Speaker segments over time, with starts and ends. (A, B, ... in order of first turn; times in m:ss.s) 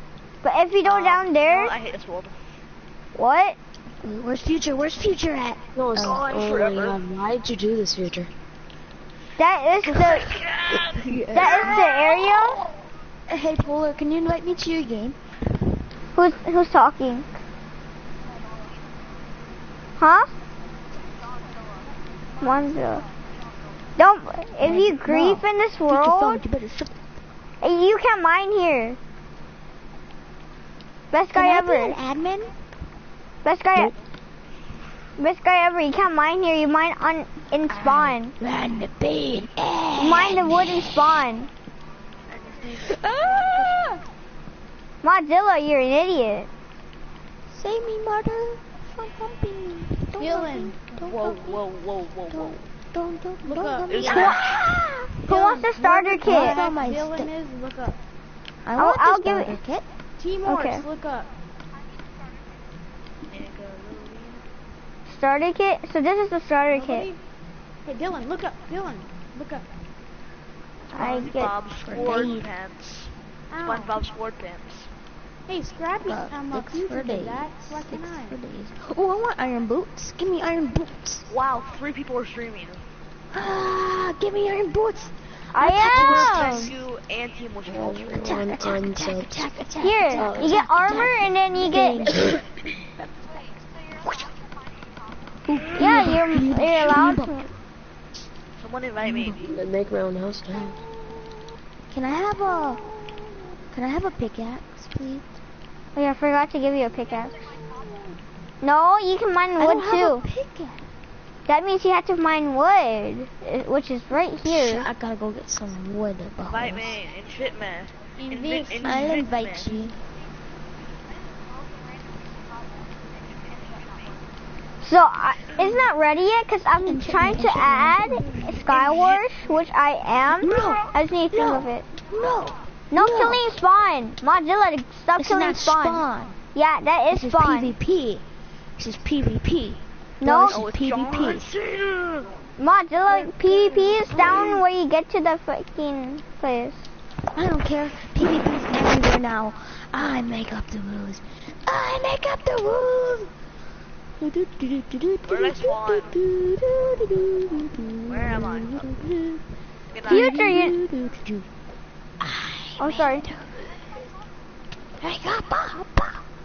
0:00.4-0:01.7 A
0:00.8-0:02.4 B
0:03.2-0:03.6 A
0:04.0-0:06.2 C
0:05.8-0:08.3 D
0:06.0-0:07.0 B
0:09.4-0:10.4 A
0:09.8-0:12.4 C
0:10.3-0:11.5 B
0:11.3-0:12.6 A
0:13.3-0:15.2 C
0:16.1-0:17.3 A
0:20.0-0:20.3 A
0:22.4-0:23.0 A
0:24.0-0:26.4 A
0:24.6-0:26.9 C
0:27.6-0:29.0 A
0:31.1-0:32.0 A
0:31.3-0:32.5 C
0:33.4-0:33.9 A
0:35.2-0:38.3 A
0:37.7-0:41.2 C
0:40.0-0:41.5 A
0:42.3-0:43.8 B
0:42.8-0:44.0 C
0:45.0-0:46.5 A
0:47.5-0:51.5 C
0:50.2-0:51.3 E
0:51.0-0:52.6 B
0:52.3-0:55.2 C
0:53.4-0:54.3 E
0:53.9-0:54.7 B
0:55.2-0:56.6 A
0:55.5-0:58.0 E
0:56.2-0:57.3 C
0:58.6-0:59.8 C
0:58.8-0:59.6 A
1:00.2-1:01.3 E
1:00.4-1:00.8 A
1:03.3-1:04.4 B
1:05.1-1:07.1 A
1:06.7-1:07.2 E
1:07.8-1:09.6 E
1:10.9-1:11.5 A
1:10.9-1:13.1 B
1:11.8-1:12.5 C
1:13.5-1:14.0 E
1:13.6-1:14.9 B
1:15.5-1:18.4 E
1:16.0-1:21.3 C
1:21.3-1:22.8 B
1:23.3-1:26.8 C
1:25.6-1:26.7 A
1:25.6-1:28.4 B
1:27.6-1:29.5 D
1:28.1-1:32.5 C
1:29.8-1:32.2 A
1:30.1-1:30.6 D
1:35.5-1:37.4 C
1:35.8-1:37.4 A
1:38.6-1:39.5 B
1:39.0-1:39.4 C
1:39.4-1:40.8 D
1:41.9-1:42.9 C
1:43.7-1:45.4 C
1:45.9-1:47.3 A
1:48.6-1:50.2 A
1:49.6-1:50.8 C
1:51.5-1:54.9 A
1:54.5-1:57.0 C
1:56.4-1:59.9 B
1:58.2-1:59.0 E
1:58.8-2:00.0 C
2:04.8-2:11.8 A
2:06.8-2:08.6 C
2:08.7-2:09.2 B
2:10.3-2:13.4 C
2:12.9-2:17.7 A
2:15.2-2:16.4 C
2:17.1-2:18.2 C
2:18.8-2:21.5 C
2:20.2-2:20.6 A
2:20.4-2:22.3 B
2:22.6-2:26.9 A
2:23.1-2:24.6 C
2:27.3-2:33.3 C
2:34.2-2:39.4 C
2:35.2-2:36.2 B
2:38.0-2:38.9 B
2:39.9-2:40.3 B
2:40.1-2:40.8 A
2:40.1-2:41.4 C
2:42.2-2:44.0 C
2:42.8-2:43.2 A
2:45.0-2:46.2 C